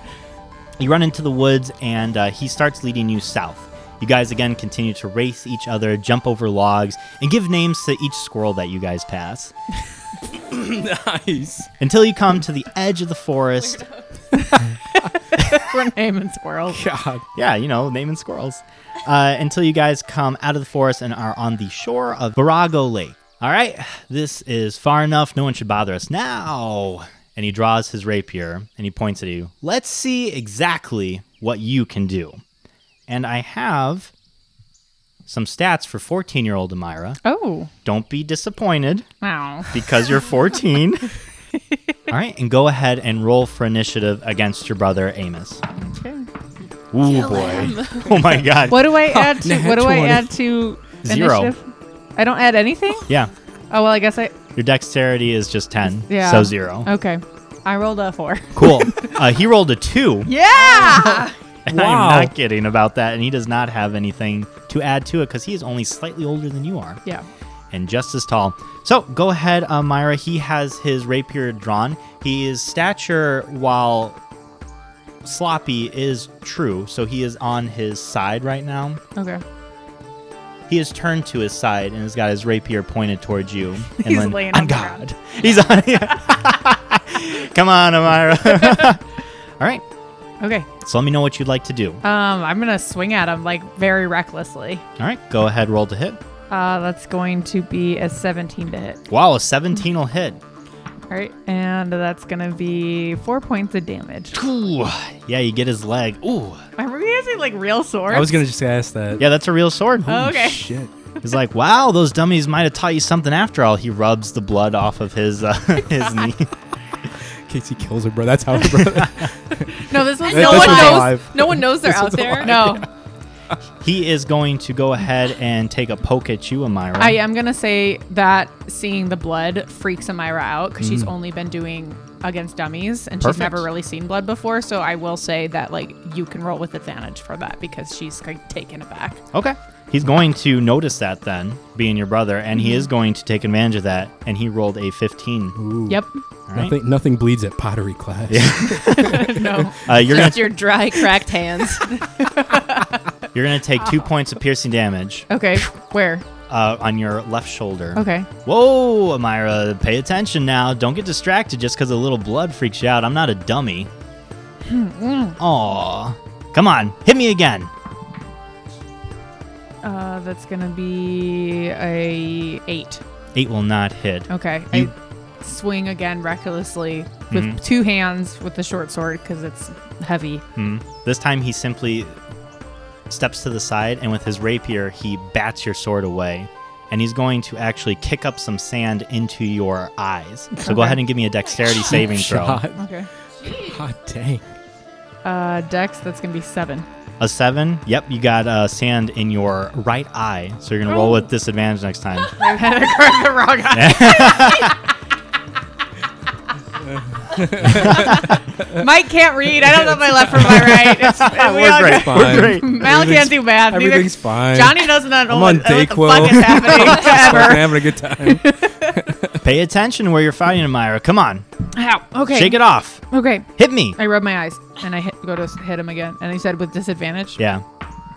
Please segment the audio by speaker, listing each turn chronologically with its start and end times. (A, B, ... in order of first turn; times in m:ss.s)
0:00.8-0:09.5 A
0:10.3-0:11.7 B
0:11.8-0:13.8 A
0:14.4-0:16.8 C
0:16.7-0:17.2 B
0:17.4-0:32.4 A
0:33.1-0:34.1 A
0:35.3-0:37.2 A
0:37.2-0:37.7 C
0:37.8-0:39.1 A
0:39.2-0:39.8 C
0:39.7-0:41.1 A
0:42.1-0:45.6 A
0:45.8-0:46.3 C
0:46.9-0:48.9 A
0:47.0-0:48.2 D
0:48.7-0:53.1 C
0:48.9-0:50.3 B
0:51.0-0:51.5 A
0:53.7-0:54.4 C
0:54.6-0:56.9 A
0:56.1-0:59.1 C
0:58.6-1:07.0 A
1:00.3-1:01.4 C
1:01.7-1:02.3 B
1:07.7-1:14.2 A
1:15.2-1:19.0 A
1:19.2-1:19.4 C
1:20.7-1:29.0 A
1:24.0-1:25.0 C
1:30.4-1:30.7 C
1:30.8-1:32.0 A
1:32.0-1:34.8 C
1:35.0-1:36.2 A
1:36.5-1:39.0 C
1:39.1-1:40.4 A
1:41.1-1:44.3 C
1:44.3-1:46.6 A
1:46.8-1:48.4 C
1:48.1-1:49.3 B
1:49.2-1:50.3 A
1:50.0-1:50.9 B
1:50.1-1:50.6 C
1:51.2-1:56.5 A
1:57.5-2:02.9 B
1:59.0-1:59.2 A
1:59.8-2:01.2 C
2:00.2-2:02.7 D
2:02.4-2:02.9 C
2:03.8-2:07.2 A
2:07.0-2:19.2 C
2:10.8-2:11.1 B
2:13.2-2:13.6 A
2:19.3-2:25.6 A
2:22.6-2:22.9 C
2:25.6-2:29.7 B
2:25.9-2:26.2 C
2:26.5-2:26.8 A
2:28.3-2:30.6 A
2:28.9-2:30.0 C
2:29.9-2:32.0 D
2:32.0-2:32.9 C
2:33.3-2:35.7 A
2:35.3-2:36.2 C
2:36.5-2:43.9 A
2:38.0-2:38.3 C
2:44.6-2:45.4 C
2:45.4-2:47.7 A
2:49.8-2:53.0 C
2:53.4-2:54.9 A
2:54.3-3:00.4 C
2:57.3-2:57.6 A
3:00.6-3:02.2 A
3:03.1-3:12.6 A
3:10.6-3:11.0 C
3:11.7-3:12.9 B
3:12.8-3:13.1 C
3:13.4-3:14.4 B
3:15.2-3:16.9 C
3:17.2-3:22.4 A
3:20.9-3:21.2 C
3:22.3-3:24.8 C
3:23.7-3:24.8 A
3:26.8-3:28.9 B
3:27.7-3:39.0 C
3:29.6-3:30.7 B
3:30.4-3:32.9 A
3:31.8-3:39.4 B
3:39.4-3:41.5 A
3:41.7-3:47.4 C
3:42.3-3:43.0 A
3:43.6-3:44.0 A
3:47.4-3:47.6 A